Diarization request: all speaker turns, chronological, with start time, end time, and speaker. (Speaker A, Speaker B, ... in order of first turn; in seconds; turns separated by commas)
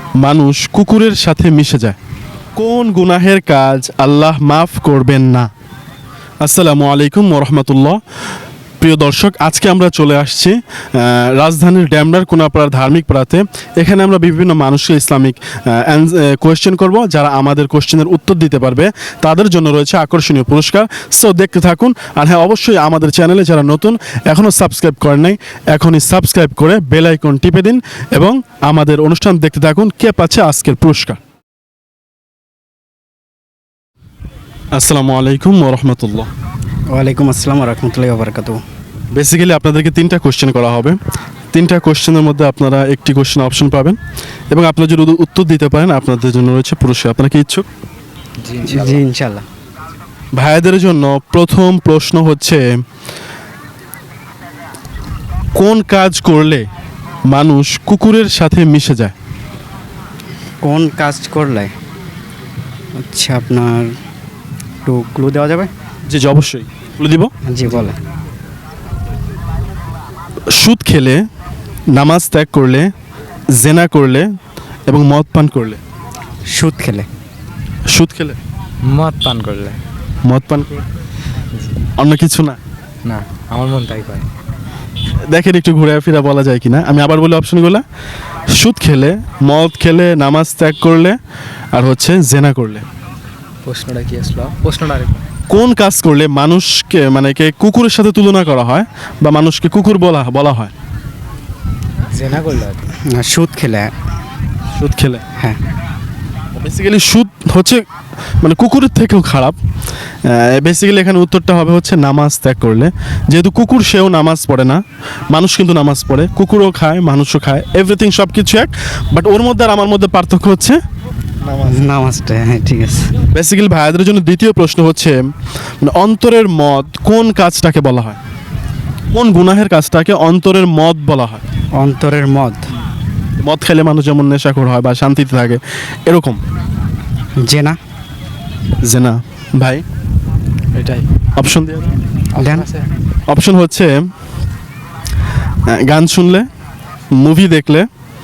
Speaker A: 0.2-2.0, Speaker A: 2.6-5.5, Speaker A: 6.4-8.0, Speaker A: 8.8-31.2, Speaker A: 34.7-36.3, Speaker B: 36.9-38.6, Speaker A: 39.1-41.0, Speaker A: 41.5-44.0, Speaker A: 44.5-47.7, Speaker C: 48.4-49.0, Speaker B: 48.6-49.4, Speaker A: 50.3-52.7, Speaker A: 55.5-56.7, Speaker A: 57.3-59.1, Speaker B: 60.6-61.7, Speaker B: 63.0-63.9, Speaker B: 64.8-65.7, Speaker A: 66.1-67.3, Speaker B: 67.5-68.0, Speaker A: 70.5-71.2, Speaker A: 71.9-72.9, Speaker A: 73.5-74.3, Speaker A: 74.9-75.8, Speaker B: 76.5-77.1, Speaker A: 77.9-78.4, Speaker C: 78.9-79.8, Speaker A: 80.2-80.8, Speaker C: 81.5-81.8, Speaker A: 82.0-82.6, Speaker C: 83.0-84.3, Speaker A: 85.3-87.8, Speaker A: 88.5-91.2, Speaker A: 91.7-92.8, Speaker C: 93.6-95.2, Speaker A: 95.5-100.7, Speaker C: 102.1-102.9, Speaker B: 103.0-103.9, Speaker A: 104.8-105.2, Speaker A: 106.6-107.8, Speaker A: 108.4-109.6, Speaker A: 110.2-120.8, Speaker A: 121.4-121.9, Speaker B: 121.7-123.1, Speaker A: 123.3-128.2, Speaker A: 129.1-131.4, Speaker B: 131.8-132.6, Speaker A: 133.4-136.4, Speaker B: 137.4-137.8, Speaker A: 138.8-139.8, Speaker C: 140.7-141.1, Speaker A: 141.4-142.0, Speaker C: 142.3-142.9, Speaker B: 142.3-142.7, Speaker A: 143.3-143.9, Speaker A: 145.7-146.5, Speaker A: 147.1-147.9